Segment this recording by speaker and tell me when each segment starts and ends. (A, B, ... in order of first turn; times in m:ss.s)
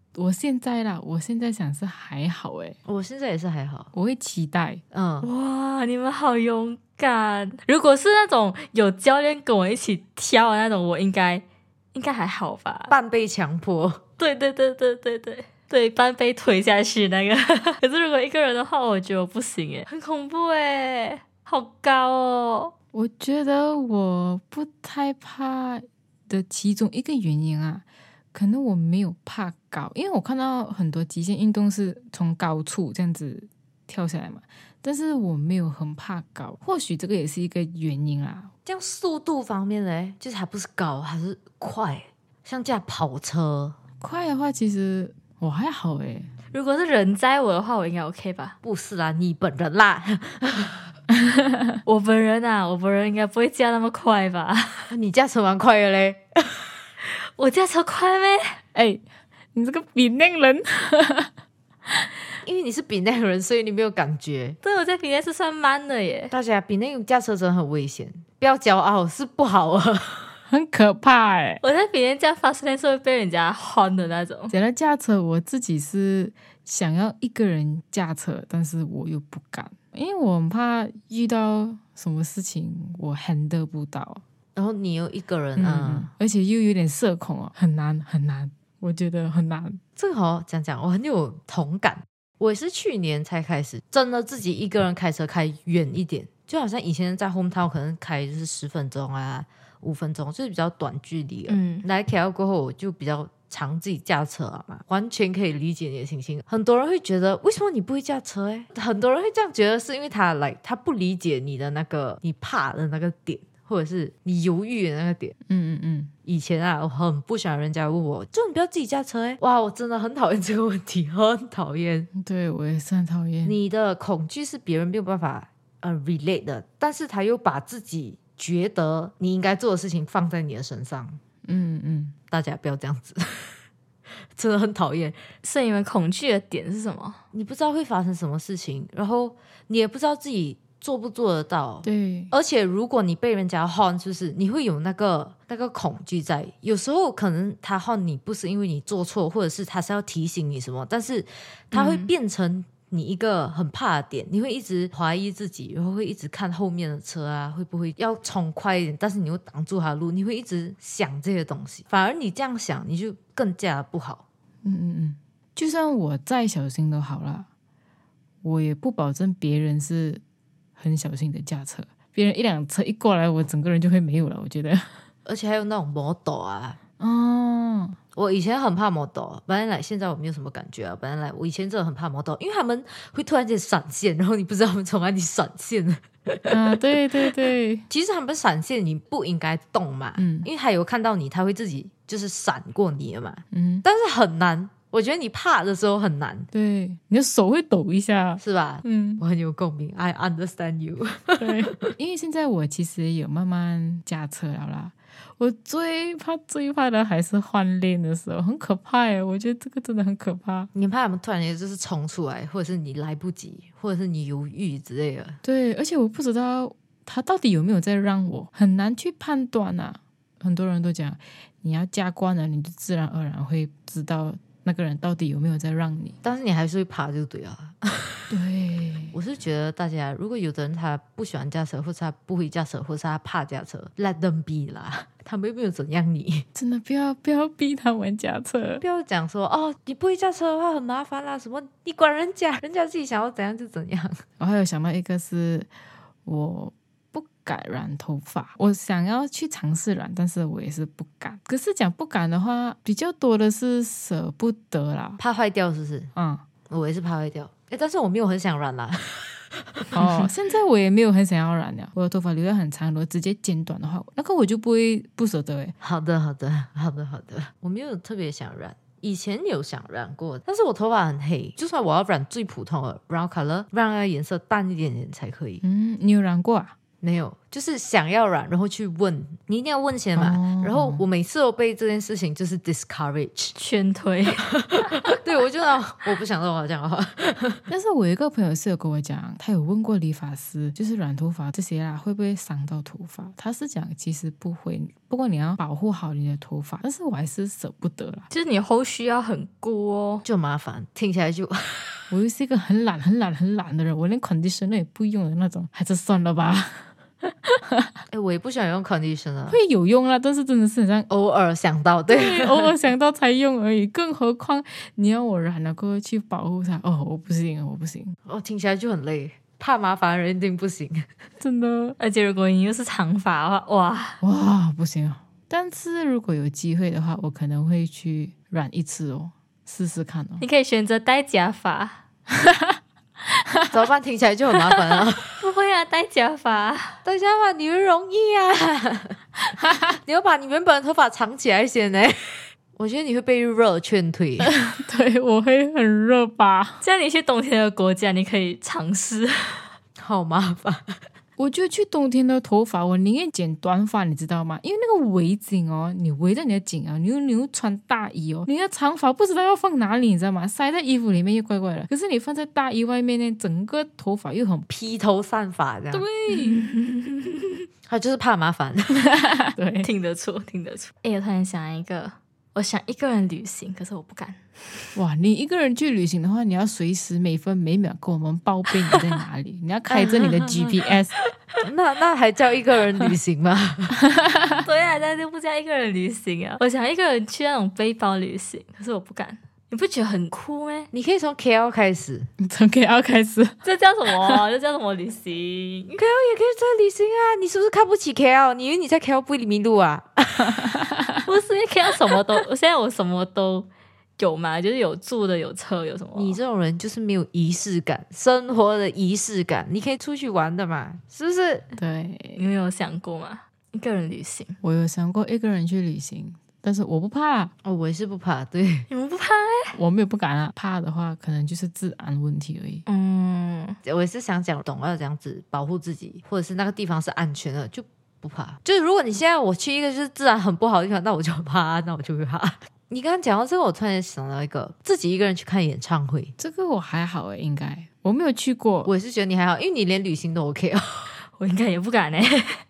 0:00.2-0:02.8 A
0:02.9-0:03.9 B
0:03.9-0:04.8 A
0:04.9-0:05.3 B
0:05.2-0:12.9 C
0:12.9-0:14.0 B
0:14.2-0:22.7 C
0:22.9-0:38.5 A
0:38.7-0:43.8 B
0:44.0-0:46.3 A
0:46.5-0:48.6 C
0:48.6-0:50.9 B
0:51.1-0:51.8 A
0:51.8-0:54.9 C
0:54.9-0:56.6 B
0:57.4-0:58.6 C
0:58.8-0:59.0 A
0:59.5-1:01.3 A
1:01.9-1:02.2 A
1:02.4-1:04.6 B
1:04.6-1:06.3 C
1:06.3-1:10.3 B
1:10.5-1:11.6 A
1:11.6-1:14.5 C
1:14.5-1:24.2 A
1:24.6-1:26.1 B
1:25.6-1:29.8 A
1:30.0-1:55.4 B
1:41.5-1:41.8 C
1:55.5-1:56.1 A
1:56.3-2:02.1 B
2:02.1-2:03.6 A
2:03.4-2:11.2 B
2:11.4-2:12.2 A
2:12.3-2:13.6 B
2:14.4-2:15.2 B
2:15.4-2:17.2 C
2:17.3-2:44.2 B
2:21.8-2:22.3 A
2:31.7-2:32.1 C
2:44.6-2:47.5 A
2:48.4-2:50.2 A
2:50.8-2:55.0 A
2:55.3-2:56.8 B
2:57.0-2:58.0 A
2:58.2-3:06.6 B
3:06.5-3:07.9 A
3:07.9-3:16.5 B
3:10.2-3:10.5 A
3:13.5-3:13.8 A
3:16.5-3:19.2 A
3:18.4-3:21.9 B
3:21.4-3:30.7 A
3:30.7-3:35.4 B
3:35.4-3:46.2 A
3:46.2-3:48.3 B
3:48.3-3:49.2 A
3:49.1-3:56.5 B
3:56.6-3:58.8 A
3:58.8-4:04.2 B
4:04.4-4:05.7 A
4:06.2-4:15.2 A
4:15.2-4:16.1 B
4:16.2-4:16.4 A
4:16.7-4:20.2 B
4:20.0-4:25.7 A
4:25.8-4:35.6 B
4:35.6-4:36.8 A
4:37.0-4:43.6 B
4:40.2-4:41.0 A
4:43.6-4:45.1 C
4:44.4-4:47.6 B
4:47.7-4:58.3 A
4:58.3-5:00.2 C
5:00.2-5:02.0 B
5:02.1-5:06.9 A
5:07.5-5:07.9 A
5:08.1-5:09.6 B
5:09.5-5:11.1 A
5:11.1-5:12.7 B
5:12.1-5:18.2 A
5:18.3-5:21.1 B
5:21.4-5:22.0 A
5:22.0-5:24.2 C
5:24.2-5:30.4 A
5:30.4-5:32.0 C
5:32.4-5:32.8 A
5:33.4-5:33.8 A
5:33.7-5:35.4 B
5:35.4-5:37.0 C
5:37.0-5:39.2 B
5:39.9-5:44.5 B
5:44.4-5:46.8 A
5:46.8-5:49.7 C
5:50.0-5:51.0 B
5:51.4-6:04.7 A
6:04.7-6:06.1 B
6:05.9-6:06.7 A
6:06.3-6:07.6 C
6:07.9-6:09.1 B
6:09.0-6:09.9 A
6:09.8-6:14.9 C
6:15.0-6:21.1 A
6:19.9-6:20.7 B
6:21.6-6:24.0 B
6:24.1-6:24.6 A
6:24.6-6:30.9 C
6:30.9-6:32.3 B
6:32.4-6:33.6 A
6:33.6-6:36.0 C
6:36.0-6:40.8 B
6:40.5-6:41.2 A
6:41.3-6:46.4 C
6:46.2-6:51.7 B
6:51.8-6:52.4 A
6:52.4-6:54.6 C
6:54.6-6:57.5 A
6:57.6-6:58.9 B
6:58.9-6:59.8 C
6:59.8-7:02.8 A
7:02.9-7:03.8 C
7:03.8-7:16.3 B
7:16.4-7:18.9 A
7:18.8-7:21.1 B
7:21.4-7:22.6 C